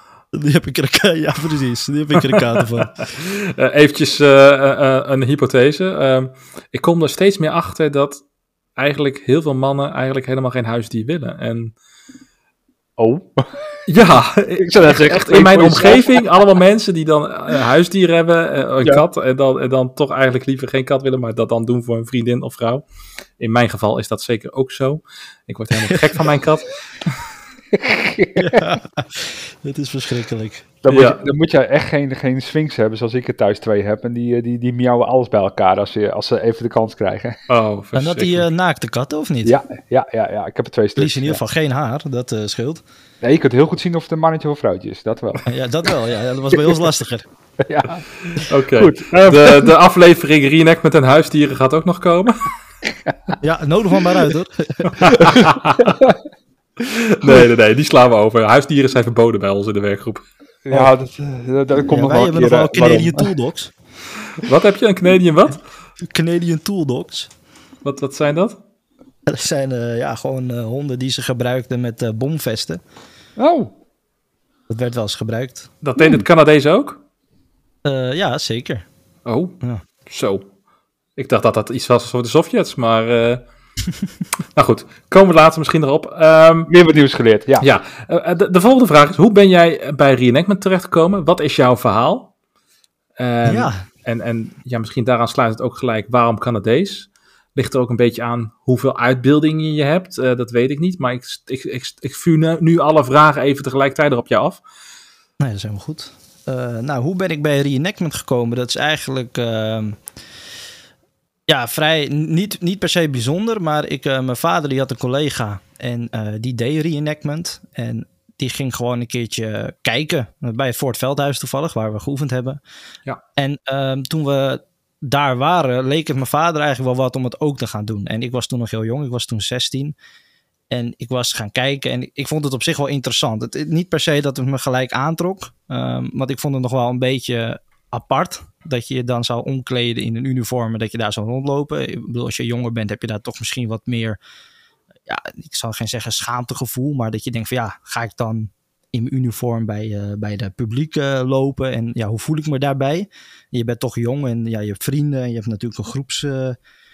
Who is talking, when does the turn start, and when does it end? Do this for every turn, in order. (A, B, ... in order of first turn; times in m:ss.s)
0:00.3-0:03.0 A
0:03.1-0:08.2 B
0:08.8-0:11.8 B
0:13.0-0:13.8 C
0:13.9-0:22.8 B
0:14.6-0:16.2 C
0:23.4-0:26.8 B
0:27.7-0:28.6 C
0:28.4-0:30.7 A
0:30.8-0:37.4 C
0:30.9-0:31.2 B
0:37.5-0:38.5 B
0:38.0-0:39.6 A
0:39.4-0:41.4 C
0:41.0-0:42.8 A
0:43.2-0:45.4 C
0:45.5-0:47.3 A
0:47.6-0:49.7 C
0:48.3-0:52.5 B
0:53.1-0:53.3 C
0:53.4-0:55.2 A
0:55.0-0:56.0 B
0:56.8-1:00.3 B
1:00.6-1:03.3 C
1:01.9-1:03.7 A
1:04.4-1:05.6 B
1:06.0-1:07.3 A
1:07.8-1:08.6 B
1:09.3-1:12.8 A
1:13.4-1:13.7 C
1:14.7-1:15.7 A
1:15.8-1:17.0 B
1:16.0-1:16.3 C
1:17.8-1:18.9 A
1:19.2-1:20.5 B
1:21.2-1:23.4 B
1:24.6-1:26.7 B
1:26.7-1:27.7 C
1:27.6-1:32.3 B
1:33.2-1:44.6 B
1:33.4-1:33.8 A
1:45.4-1:50.0 A
1:51.5-2:02.6 A
2:03.4-2:10.0 A
2:10.7-2:24.2 A
2:25.1-2:36.6 A